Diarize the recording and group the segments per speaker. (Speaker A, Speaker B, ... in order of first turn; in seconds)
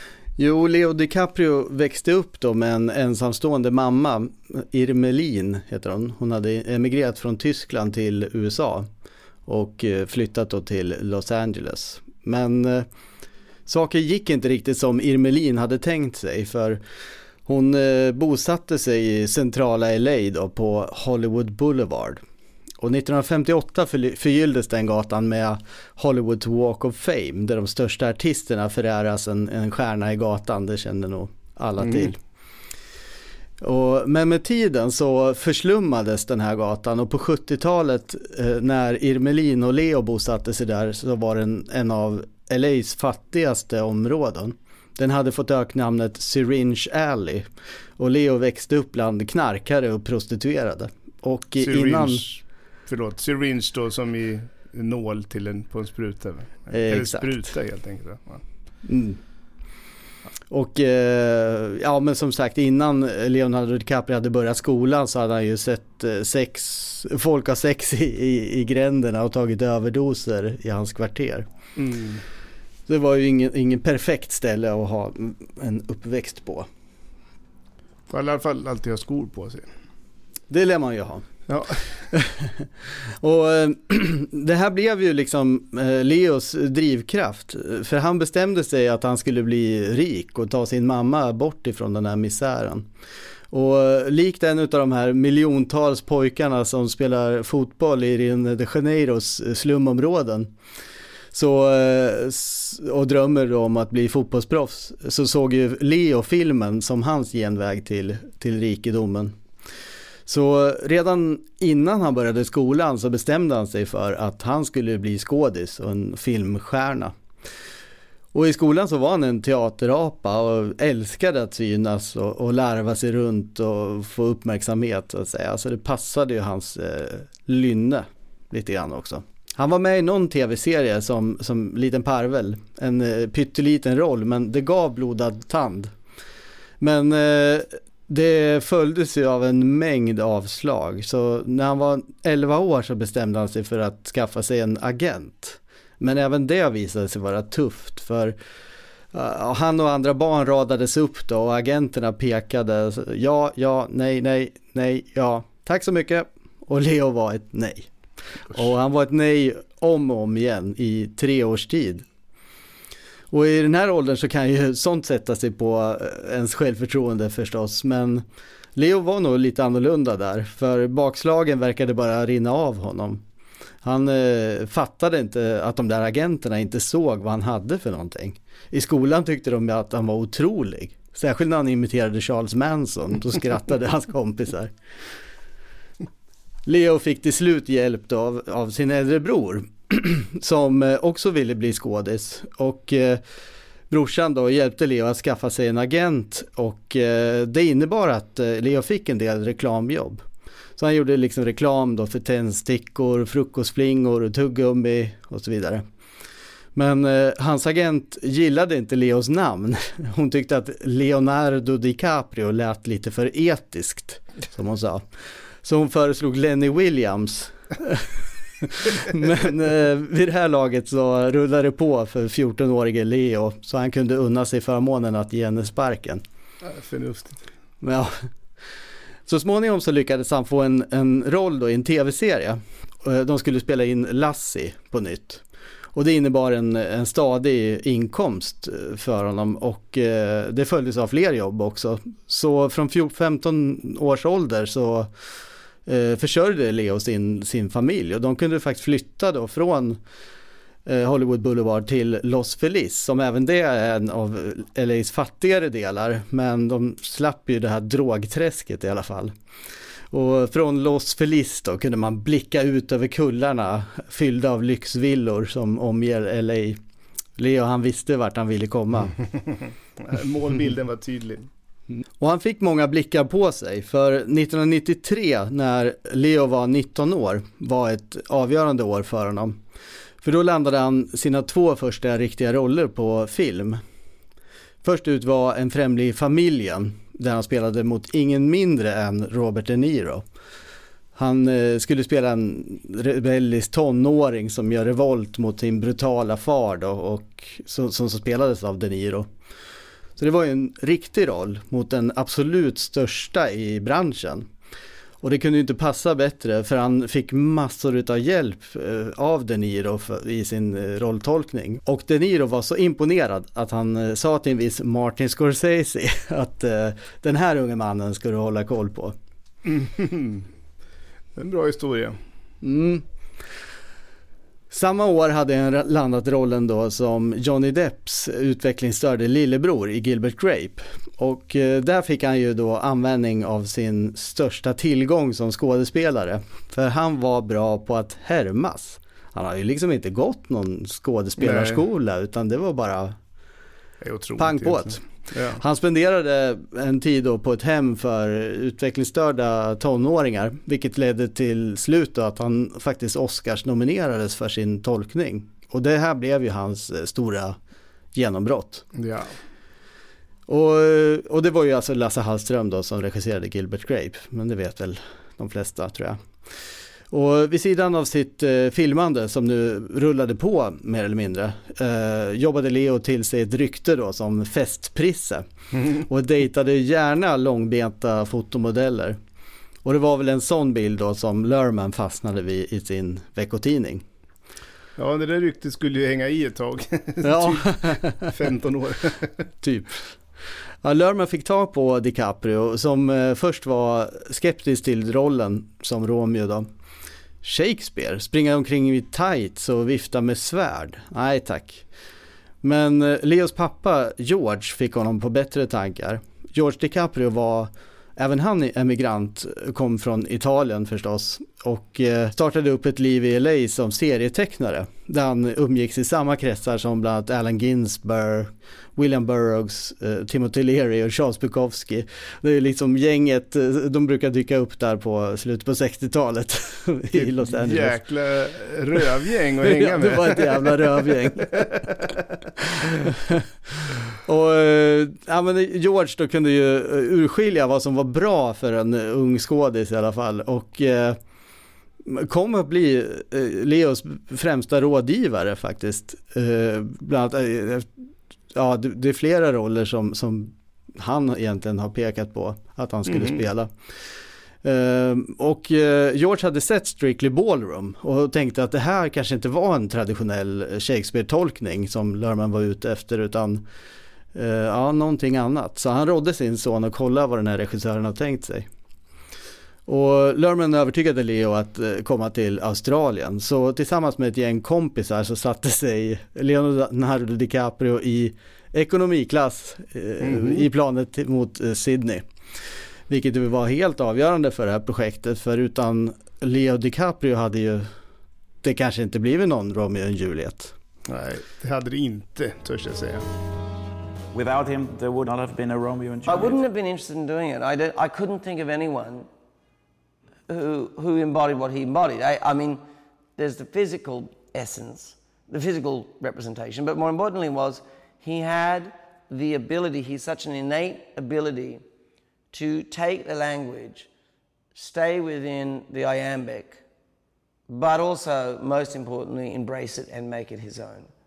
Speaker A: 0.4-8.9, 9.5-12.9, 13.7-16.8, 17.5-22.2, 22.8-32.2, 33.6-52.2, 56.7-57.5, 58.9-59.2, 60.5-71.5, 72.9-76.7, 80.5-81.3, 82.1-92.9, 93.5-100.5, 101.3-109.4, 110.3-117.1, 118.3-135.9, 136.8-148.4, 149.1-157.9, 158.4-162.1, 163.3-173.2, 173.8-184.7, 186.7-193.2, 193.9-200.2, 200.8-205.8, 206.8-215.1, 215.6-226.2, 227.8-228.3, 229.3-235.4, 235.9-245.1, 245.9-250.0, 250.8-259.3, 260.1-266.8, 267.4-269.1, 272.2-279.6, 280.2-283.8, 284.8-290.2, 291.2-299.3, 300.2-304.5, 305.2-319.2, 322.6-323.1, 324.7-343.2, 344.4-345.0, 345.5-357.6, 358.1-358.9, 360.5-366.6, 367.1-375.4, 376.0-379.2, 379.8-384.1, 387.2-388.3, 389.6-390.2, 390.8-396.7, 397.4-401.9, 402.6-428.0, 429.6-431.9, 433.1-441.2, 442.1-447.9, 448.5-453.7, 454.6-463.6, 464.3-468.7, 469.9-482.3, 483.1-487.9, 488.6-490.8
Speaker B: 31.8-32.1, 51.6-58.4, 71.8-72.2, 78.1-79.7, 81.5-81.9, 226.6-227.5, 270.0-271.5, 319.6-320.5, 321.4-322.2, 341.4-341.8, 344.0-345.6, 358.9-359.4, 375.8-376.0, 385.0-389.3, 427.1-431.1, 453.1-453.4, 480.2-480.6, 491.1-493.2
Speaker C: 494.3-496.6
Speaker D: 496.3-499.3, 500.5-502.8, 503.4-511.8, 512.5-514.1, 514.8-516.8, 517.7-521.1